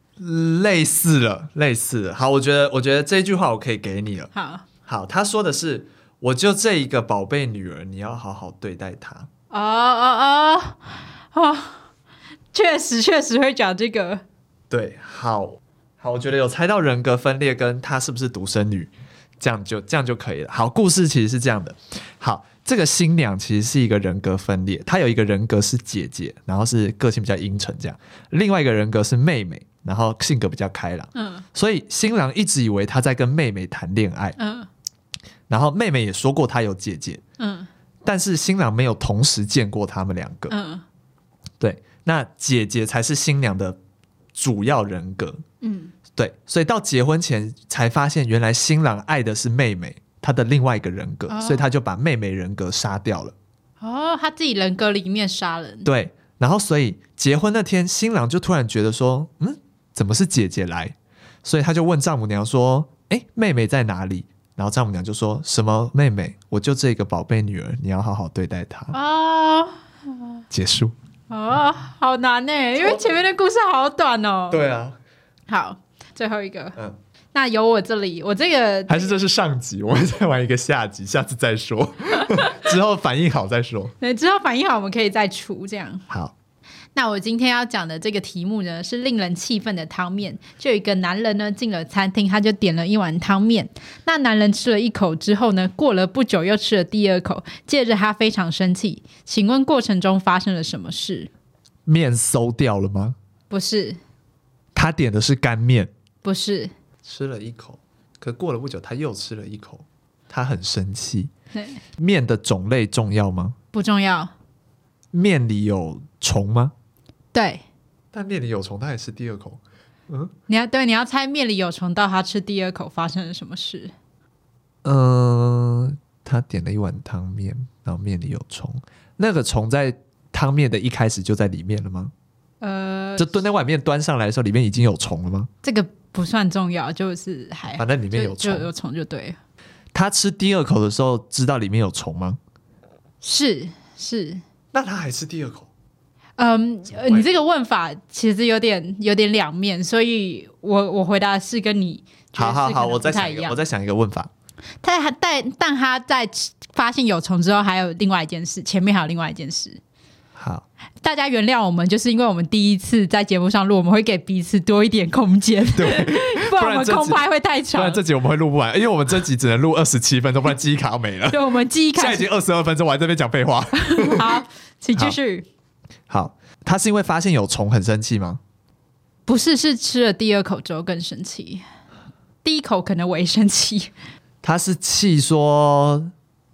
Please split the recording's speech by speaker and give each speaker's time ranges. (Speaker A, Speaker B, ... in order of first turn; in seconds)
Speaker A: 0.2-4.3, 4.8-9.3, 14.7-34.4, 35.5-37.2, 38.0-40.5, 41.6-43.8, 44.3-45.4, 46.1-53.3, 55.8-69.0, 70.5-70.9, 72.8-73.0, 74.5-75.0, 78.9-83.9, 86.1-86.3, 101.8-103.2, 104.7-105.9, 107.0-111.3, 112.0-113.5, 115.1-116.7, 118.1-120.3, 124.8-132.1, 133.2-135.5, 137.7-138.7, 139.9-142.4, 144.7-145.7, 146.9-147.3, 152.3-154.3, 160.3-160.7, 165.7-167.2, 167.7-174.4, 176.1-178.4, 184.4-186.1
Speaker B: 4.3-4.6, 9.5-11.8, 12.5-14.2, 31.1-31.4, 34.4-34.7, 37.4-37.7, 40.5-40.8, 45.6-45.9, 51.3-51.7, 53.8-55.9, 68.9-70.4, 71.3-74.6, 75.5-76.8, 77.3-79.2, 84.0-86.0, 86.9-101.3, 103.5-104.0, 106.2-106.7, 113.7-114.3, 117.3-117.6, 120.5-123.9, 132.6-133.5, 135.6-139.4, 143.2-144.4, 146.4-153.6, 154.8-159.8, 161.0-168.0, 171.3-172.3, 173.9-175.4, 179.3-181.6, 182.4-183.9